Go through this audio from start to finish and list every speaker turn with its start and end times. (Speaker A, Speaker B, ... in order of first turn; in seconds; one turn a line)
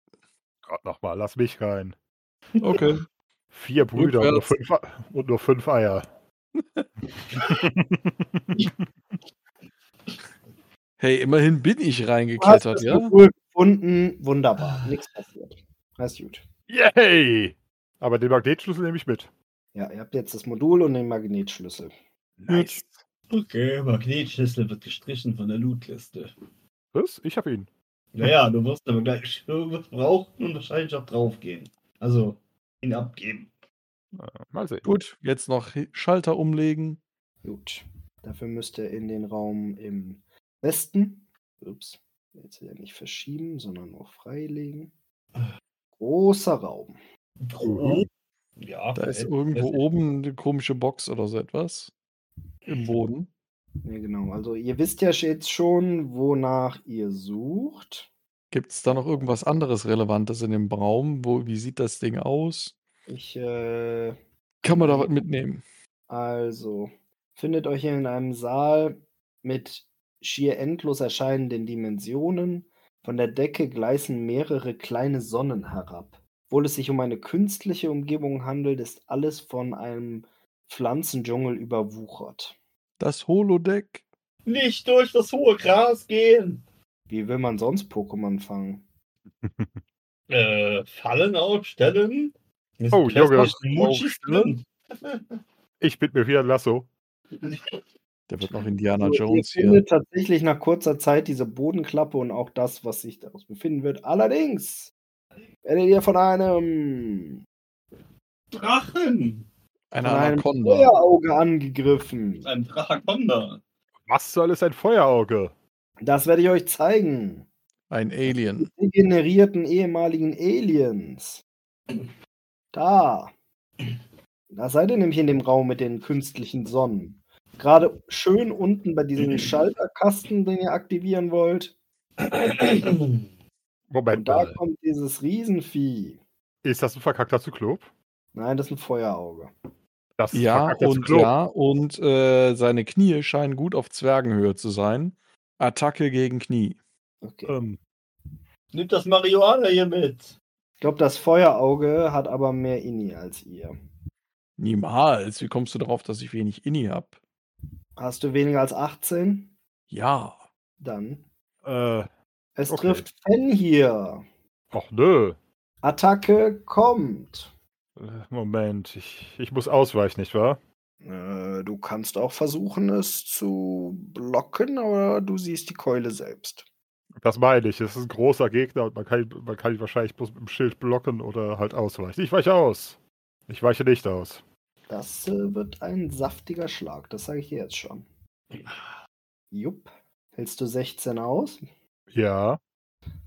Speaker A: 0.7-1.9
Speaker B: 2.6-3.0
Speaker A: 3.5-6.1
Speaker B: 3.9-4.5
Speaker B: 6.6-6.8
Speaker A: 7.3-8.8
Speaker B: 11.0-13.1
Speaker C: 12.4-16.4
Speaker D: 14.6-14.9
Speaker A: 16.7-19.3
Speaker C: 19.7-21.9
Speaker A: 22.4-23.0
Speaker B: 22.5-22.8
Speaker D: 23.3-26.3
Speaker A: 26.9-27.7
Speaker D: 28.1-33.5
Speaker A: 34.1-34.9
Speaker B: 34.8-37.0
Speaker C: 37.4-44.9
Speaker C: 46.0-47.0
Speaker D: 47.4-49.8
Speaker A: 47.6-48.0
Speaker B: 49.0-51.9
Speaker B: 52.7-53.3
Speaker C: 53.8-58.1
Speaker B: 58.5-62.7
Speaker C: 58.9-59.3
Speaker C: 63.1-65.1
Speaker B: 64.6-65.6
Speaker C: 66.1-82.5
Speaker B: 83.0-84.0
Speaker D: 84.5-86.6
Speaker C: 87.1-88.8
Speaker A: 89.4-89.8
Speaker D: 90.3-95.4
Speaker A: 92.9-93.6
Speaker B: 93.3-94.6
Speaker A: 95.8-96.9
Speaker D: 97.4-97.8
Speaker B: 98.3-99.8
Speaker C: 99.0-104.9
Speaker C: 105.6-107.4
Speaker D: 108.5-109.5
Speaker B: 109.9-110.9
Speaker C: 110.0-112.5
Speaker D: 112.4-113.6
Speaker A: 114.0-115.5
Speaker C: 116.0-117.5
Speaker B: 117.9-118.7
Speaker C: 118.6-121.4
Speaker C: 122.7-123.3
Speaker C: 124.5-131.7
Speaker D: 132.2-133.2
Speaker A: 133.9-134.6
Speaker C: 134.1-136.2
Speaker A: 136.6-137.9
Speaker C: 138.3-139.5
Speaker A: 140.2-141.3
Speaker B: 140.3-146.8
Speaker C: 147.2-147.5
Speaker A: 147.4-147.8
Speaker D: 148.7-150.3
Speaker C: 150.8-153.7
Speaker B: 154.6-157.2
Speaker C: 158.0-159.5
Speaker B: 159.9-160.4
Speaker C: 160.8-161.2
Speaker A: 161.6-162.1
Speaker C: 162.6-164.2
Speaker A: 162.7-163.0
Speaker A: 164.7-165.4
Speaker C: 165.8-167.5
Speaker A: 168.0-170.6
Speaker C: 171.0-176.7
Speaker A: 177.2-183.0
Speaker A: 183.5-184.4
Speaker C: 184.9-188.0
Speaker D: 188.5-188.9
Speaker C: 189.5-191.6
Speaker A: 192.1-192.6